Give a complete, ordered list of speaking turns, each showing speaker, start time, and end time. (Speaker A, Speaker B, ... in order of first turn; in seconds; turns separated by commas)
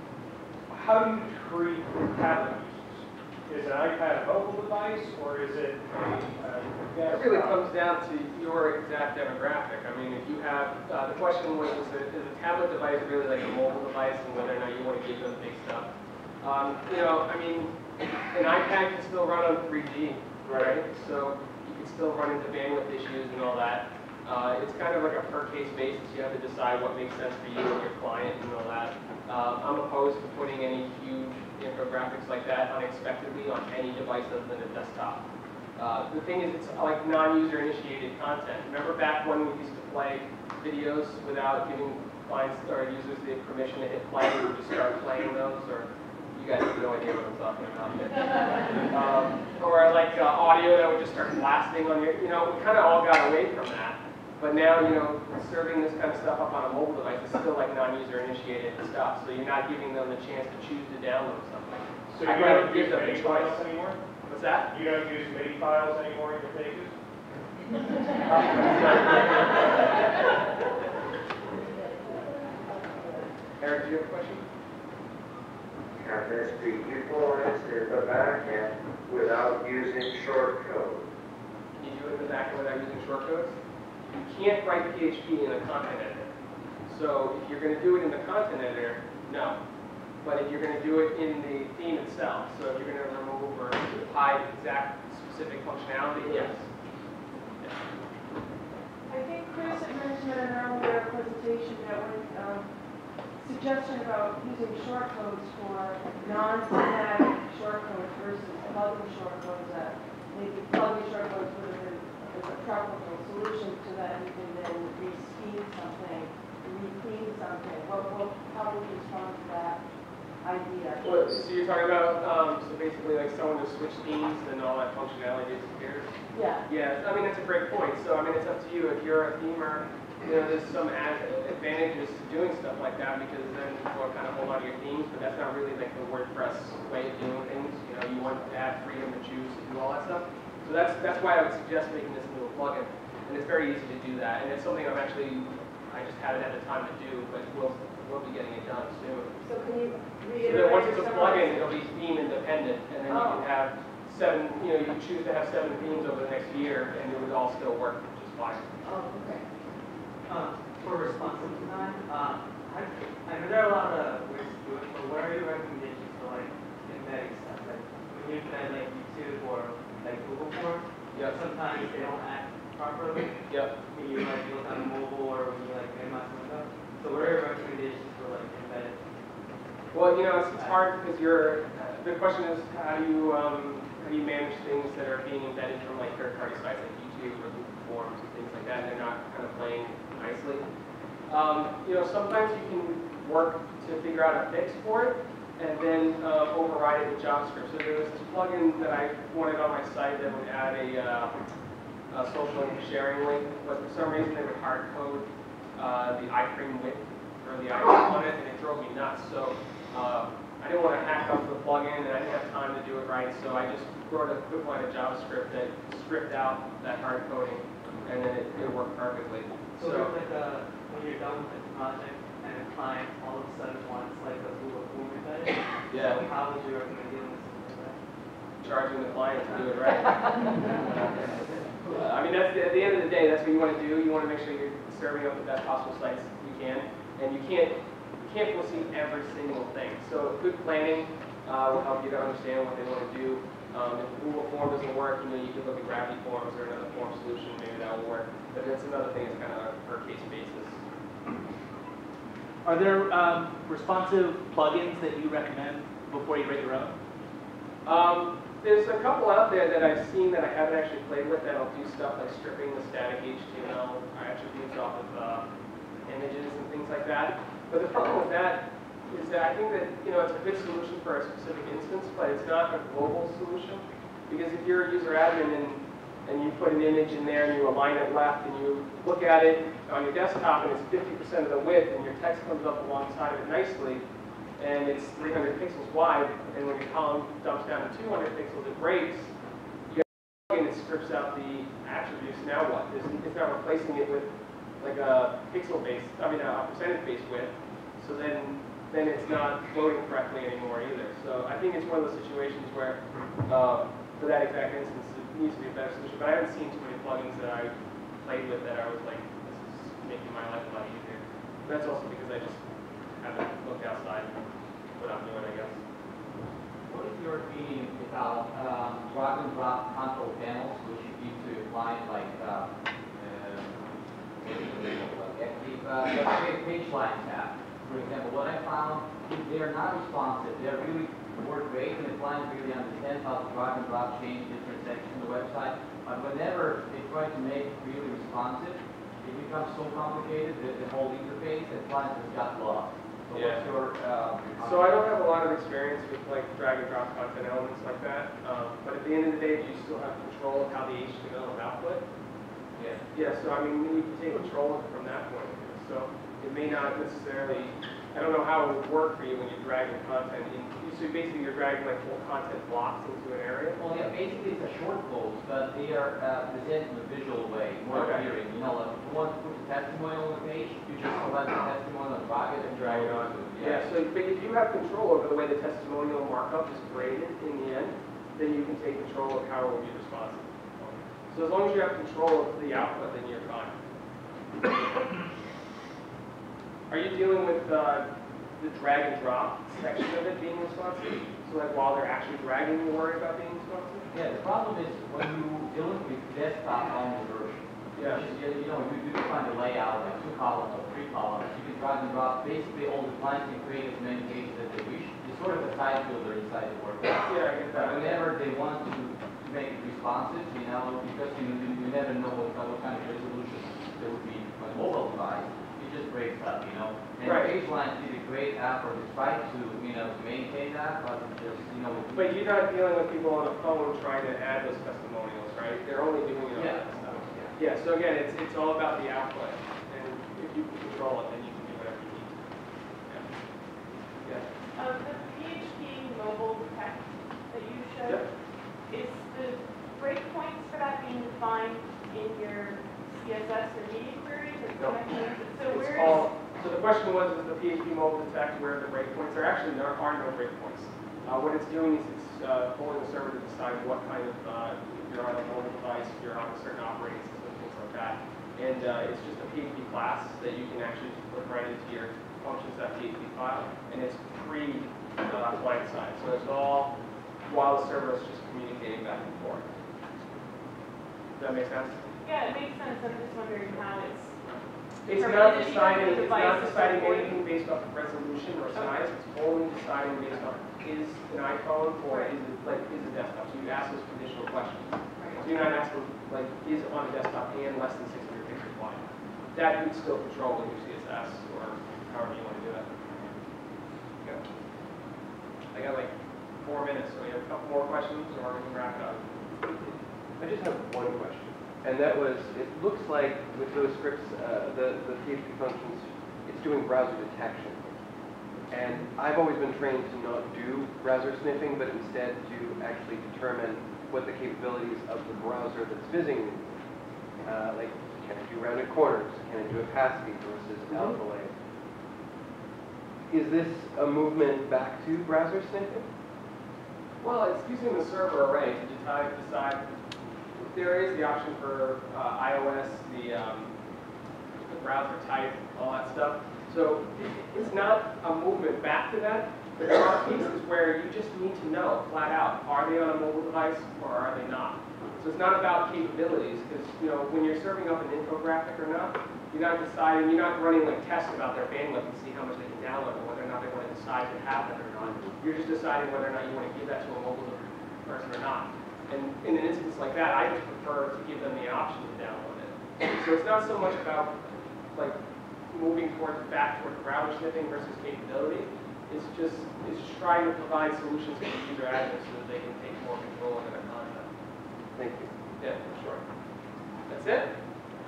Speaker A: 0.7-7.6, Speaker B: 7.1-15.9, Speaker B: 16.4-17.7, Speaker B: 18.3-35.2, Speaker B: 35.8-63.7, Speaker A: 62.1-64.0, Speaker B: 64.3-64.7, Speaker A: 64.7-66.9, Speaker A: 68.2-69.3, Speaker B: 73.6-74.4, Speaker C: 76.0-81.0, Speaker B: 81.8-83.6, Speaker B: 84.2-86.3, Speaker B: 86.9-89.6, Speaker B: 90.2-96.6, Speaker D: 99.1-102.7, Speaker D: 103.3-119.8, Speaker D: 120.4-121.4, Speaker B: 121.0-126.1, Speaker D: 126.3-126.6, Speaker B: 126.6-149.4, Speaker D: 149.4-151.8, Speaker B: 150.4-158.7, Speaker D: 153.1-153.5, Speaker D: 158.8-159.4, Speaker E: 160.3-179.0, Speaker D: 161.3-162.0, Speaker B: 171.1-171.4, Speaker B: 179.9-190.6, Speaker E: 180.6-180.8, Speaker B: 191.3-201.3, Speaker B: 202.1-220.1, Speaker E: 219.8-228.0, Speaker B: 225.9-226.2, Speaker B: 228.6-230.4, Speaker B: 231.9-250.8, Speaker F: 252.6-256.9, Speaker B: 257.8-265.4, Speaker B: 266.1-284.0, Speaker B: 284.6-289.3, Speaker B: 289.9-307.7, Speaker B: 308.2-312.6, Speaker B: 313.2-314.3, Speaker B: 315.0-315.8, Speaker G: 316.9-323.9, Speaker G: 324.4-345.0, Speaker B: 343.3-343.6, Speaker B: 344.6-352.0, Speaker G: 352.8-353.0, Speaker B: 353.1-363.8, Speaker G: 363.8-373.9, Speaker B: 367.9-368.3, Speaker B: 372.8-383.8, Speaker B: 386.9-388.1, Speaker B: 388.6-394.1, Speaker G: 394.1-422.3, Speaker B: 397.9-398.3, Speaker B: 407.2-408.2, Speaker B: 417.2-417.5, Speaker B: 422.1-432.4, Speaker G: 426.5-427.5, Speaker H: 434.7-438.3, Speaker H: 438.9-446.3, Speaker B: 444.8-445.0, Speaker B: 445.7-466.9, Speaker B: 467.4-469.6, Speaker B: 471.4-472.0, Speaker H: 472.2-474.4, Speaker B: 475.0-492.9, Speaker H: 475.1-477.4, Speaker H: 482.1-482.3, Speaker H: 485.2-485.4, Speaker B: 495.7-499.2, Speaker I: 500.4-507.9, Speaker I: 508.7-516.6, Speaker I: 517.4-521.5, Speaker D: 520.9-521.1, Speaker I: 523.3-526.0, Speaker B: 527.2-529.9, Speaker B: 530.6-533.7, Speaker B: 534.5-564.4, Speaker B: 565.7-574.3, Speaker I: 575.0-575.3, Speaker B: 575.0-576.2, Speaker B: 577.1-577.5